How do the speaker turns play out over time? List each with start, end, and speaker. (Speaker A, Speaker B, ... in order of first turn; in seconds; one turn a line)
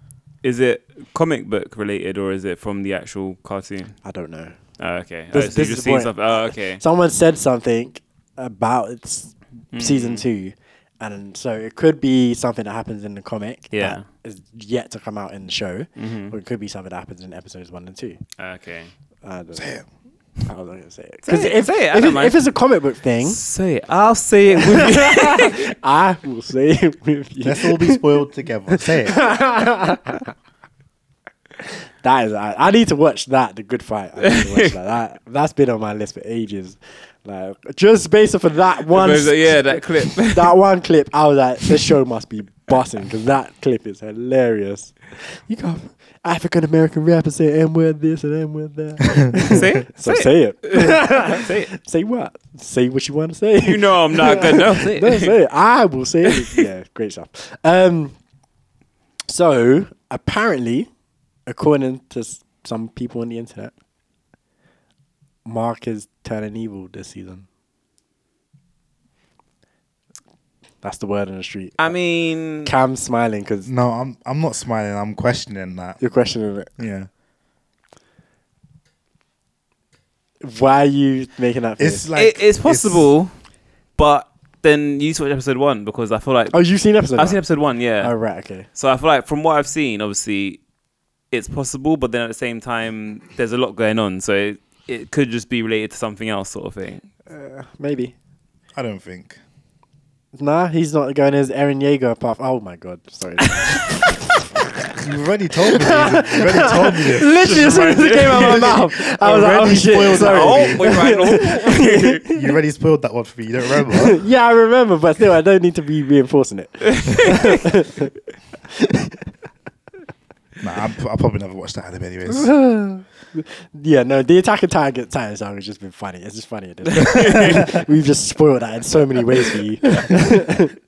Speaker A: 0.4-4.0
Speaker B: 4.0-4.6
Speaker A: 4.8-6.8
Speaker B: 5.3-18.2
Speaker A: 9.7-10.2
Speaker A: 13.7-14.1
Speaker A: 16.0-16.4
Speaker A: 18.4-18.9
Speaker B: 19.2-19.8
Speaker C: 19.6-19.9
Speaker B: 20.4-23.4
Speaker A: 21.2-22.4
Speaker A: 23.2-25.6
Speaker B: 24.6-30.3
Speaker C: 27.4-29.3
Speaker B: 31.6-58.2
Speaker A: 38.9-40.6
Speaker A: 49.5-51.7
Speaker A: 53.6-55.3
Speaker A: 56.3-56.6
Speaker B: 59.3-60.9
Speaker B: 61.5-63.7
Speaker B: 65.5-67.5
Speaker B: 70.8-72.0
Speaker A: 71.8-72.7
Speaker B: 72.5-73.7
Speaker C: 73.7-76.0
Speaker B: 76.0-76.7
Speaker C: 76.8-77.1
Speaker B: 80.4-82.1
Speaker C: 81.8-83.1
Speaker A: 82.2-83.3
Speaker A: 84.0-88.2
Speaker B: 86.5-87.4
Speaker B: 88.0-88.7
Speaker A: 88.7-90.6
Speaker A: 91.3-97.1
Speaker B: 97.3-98.1
Speaker C: 98.7-99.4
Speaker B: 100.3-104.2
Speaker C: 105.0-110.9
Speaker B: 105.7-112.4
Speaker A: 107.3-108.9
Speaker A: 109.8-112.2
Speaker C: 112.3-114.2
Speaker B: 113.9-118.1
Speaker C: 120.6-122.7
Speaker B: 122.3-130.7
Speaker A: 127.0-127.6